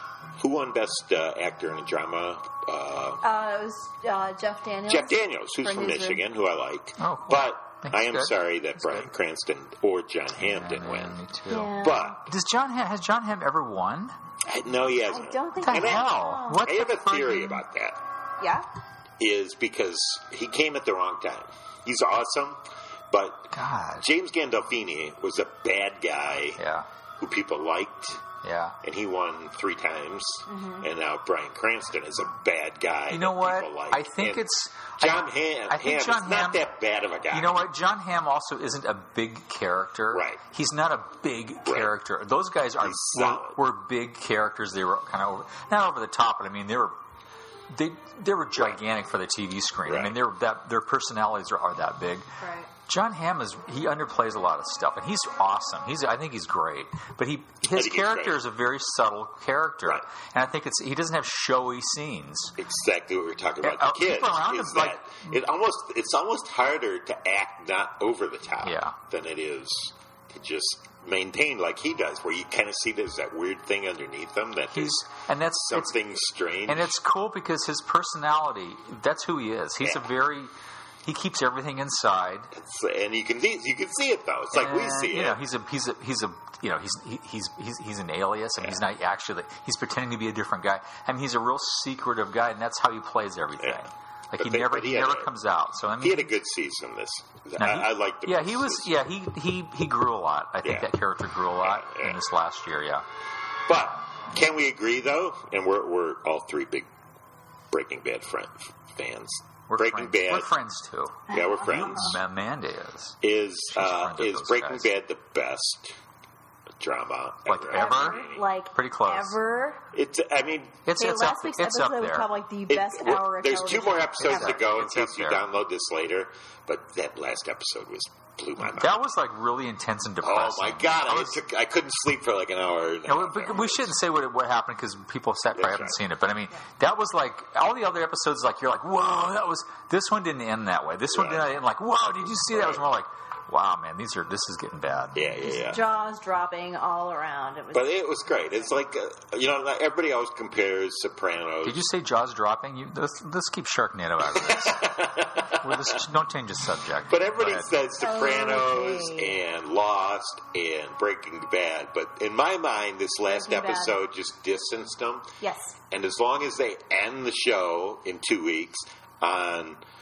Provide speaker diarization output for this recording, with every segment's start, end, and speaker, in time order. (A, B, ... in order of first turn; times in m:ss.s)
0:00.4-0:03.2 A
0:03.2-0:06.2 B
0:04.9-0:11.2 A
0:07.0-0:09.1 C
0:10.4-0:14.1 C
0:11.5-0:12.2 B
0:11.8-0:12.3 A
0:14.4-0:18.0 A
0:15.1-0:16.7 B
0:15.6-0:17.6 C
0:18.4-0:18.7 B
0:19.2-0:26.6 A
0:23.5-0:24.1 C
0:26.6-0:26.9 C
0:27.2-0:28.2 A
0:28.4-0:28.8 C
0:28.8-0:37.6 A
0:30.5-0:30.8 B
0:33.1-0:36.7 C
0:37.3-0:46.9 C
0:40.1-0:40.4 A
0:41.6-0:42.0 A
0:42.8-0:43.6 A
0:47.7-0:52.3 C
0:49.9-0:50.2 A
0:52.4-0:52.7 B
0:52.9-1:02.5 C
0:57.7-0:58.4 A
1:02.6-1:17.0 A
1:03.6-1:05.4 C
1:08.6-1:09.0 C
1:14.7-1:16.0 C
1:16.7-1:20.5 C
1:19.8-1:20.2 A
1:21.0-1:22.5 C
1:22.5-1:25.4 A
1:24.5-1:36.3 C
1:28.6-1:28.9 A
1:34.4-1:35.3 A
1:36.0-1:39.0 A
1:37.6-1:43.0 C
1:40.6-1:40.9 A
1:41.6-1:42.2 A
1:43.7-1:46.9 A
1:47.7-1:50.5 A
1:49.7-1:54.9 C
1:51.3-1:52.2 A
1:53.2-1:55.9 A
1:56.8-1:58.4 A
1:57.5-1:59.4 C
1:57.7-1:59.8 B
1:59.9-2:00.9 A
2:00.8-2:02.3 C
2:00.9-2:04.6 B
2:02.7-2:09.1 A
2:04.2-2:05.5 C
2:08.6-2:11.4 C
2:10.2-2:14.0 A
2:13.1-2:25.2 C
2:15.6-2:16.0 A
2:21.1-2:21.6 A
2:22.5-2:22.8 A
2:25.1-2:25.8 A
2:25.4-2:28.0 B
2:27.7-2:31.9 A
2:31.6-2:37.7 C
2:34.4-2:36.0 A
2:37.1-2:45.3 A
2:38.0-2:39.4 B
2:43.3-2:44.0 B
2:45.4-2:45.8 B
2:45.9-2:49.8 A